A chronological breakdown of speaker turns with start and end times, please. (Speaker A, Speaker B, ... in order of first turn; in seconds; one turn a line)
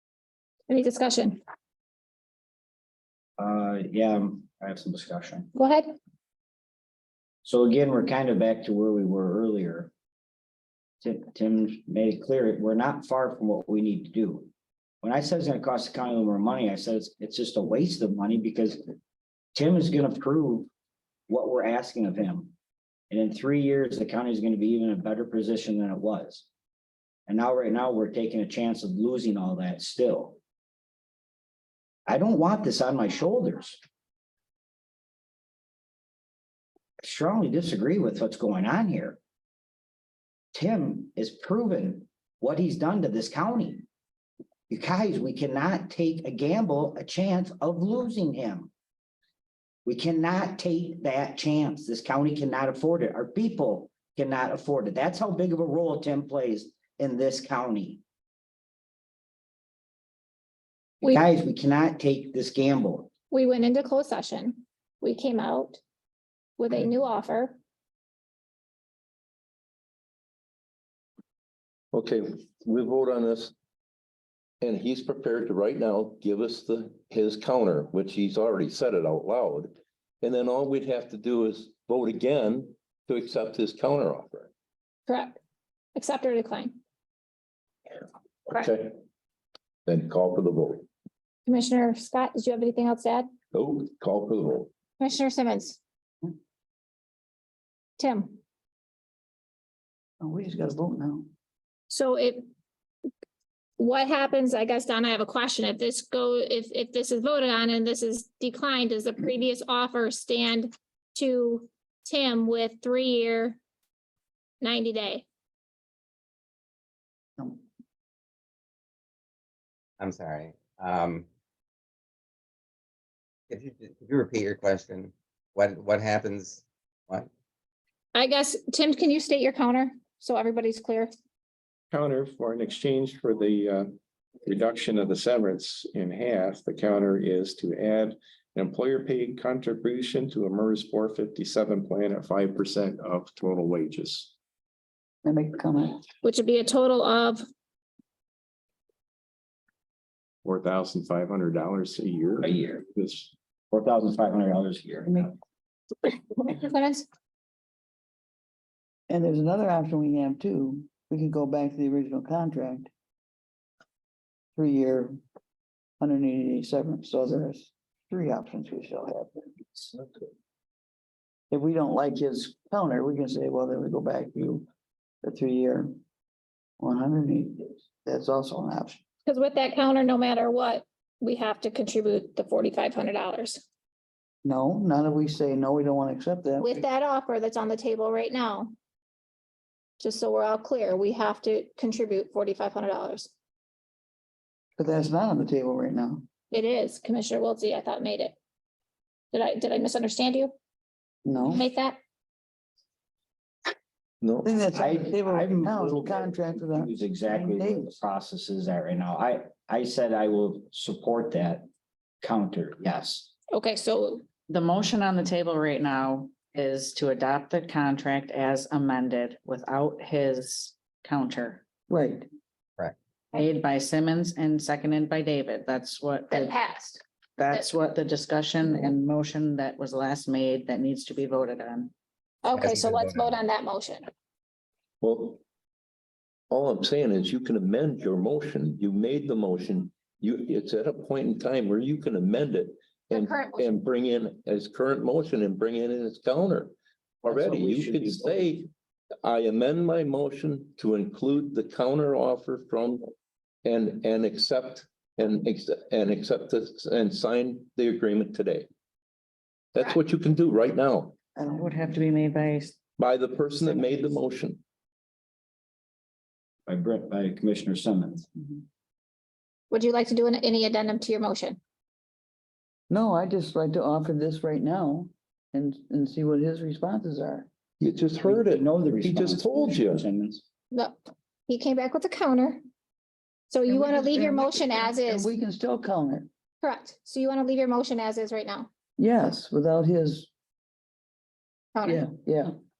Speaker A: 0.7-1.4
Speaker B: 3.4-5.5
Speaker A: 5.5-5.9
Speaker B: 7.4-9.9
Speaker B: 11.0-14.5
Speaker B: 15.0-18.9
Speaker B: 19.5-20.7
Speaker B: 21.3-22.5
Speaker B: 23.1-26.4
Speaker B: 27.3-30.4
Speaker B: 32.1-33.8
Speaker B: 37.0-39.2
Speaker B: 40.5-43.9
Speaker B: 44.7-48.7
Speaker B: 49.8-58.0
Speaker B: 61.0-63.1
Speaker A: 63.3-65.8
Speaker A: 66.6-67.6
Speaker C: 71.9-73.5
Speaker C: 74.6-84.5
Speaker A: 85.1-85.4
Speaker A: 85.9-86.8
Speaker C: 88.5-88.9
Speaker C: 89.8-90.8
Speaker A: 91.5-93.3
Speaker C: 93.5-94.7
Speaker A: 95.0-95.8
Speaker A: 98.0-98.4
Speaker D: 100.2-101.3
Speaker A: 101.9-102.4
Speaker A: 103.8-113.6
Speaker A: 114.6-115.2
Speaker E: 120.0-121.2
Speaker E: 123.5-127.3
Speaker A: 128.1-131.1
Speaker F: 131.9-133.9
Speaker F: 134.4-144.3
Speaker D: 145.2-146.0
Speaker A: 146.2-147.4
Speaker F: 150.4-153.3
Speaker B: 152.4-152.8
Speaker B: 153.7-155.3
Speaker A: 156.3-157.1
Speaker D: 159.1-162.9
Speaker D: 164.6-165.2
Speaker D: 166.0-169.9
Speaker D: 171.5-174.7
Speaker D: 175.2-175.9
Speaker D: 176.8-179.0
Speaker A: 179.2-183.6
Speaker D: 184.4-186.8
Speaker A: 186.6-188.7
Speaker A: 190.0-193.3
Speaker D: 194.8-196.2
Speaker A: 196.5-198.3
Speaker A: 199.3-200.5
Speaker D: 201.2-201.6
Speaker A: 201.5-202.0
Speaker C: 204.2-204.9
Speaker D: 204.4-208.0
Speaker B: 204.7-211.7
Speaker B: 212.2-213.3
Speaker A: 213.5-214.2
Speaker G: 214.5-221.6
Speaker D: 221.9-222.3
Speaker G: 223.3-226.6
Speaker A: 226.3-227.7
Speaker G: 227.4-231.9
Speaker A: 232.4-234.1
Speaker E: 232.5-233.3
Speaker C: 235.0-235.4
Speaker C: 236.5-248.7
Speaker A: 243.1-243.7
Speaker B: 247.3-248.6
Speaker C: 249.2-253.1
Speaker C: 253.6-258.7
Speaker C: 259.7-261.1
Speaker D: 261.4-261.7
Speaker G: 261.5-262.8
Speaker C: 263.0-264.6
Speaker B: 266.7-268.2
Speaker A: 269.7-271.6
Speaker D: 272.9-277.5
Speaker C: 277.8-280.1
Speaker B: 278.2-280.4
Speaker A: 280.7-282.6
Speaker A: 283.5-285.3
Speaker D: 283.7-286.3
Speaker A: 286.6-288.7
Speaker D: 289.0-290.3
Speaker A: 291.7-292.0
Speaker D: 291.8-292.5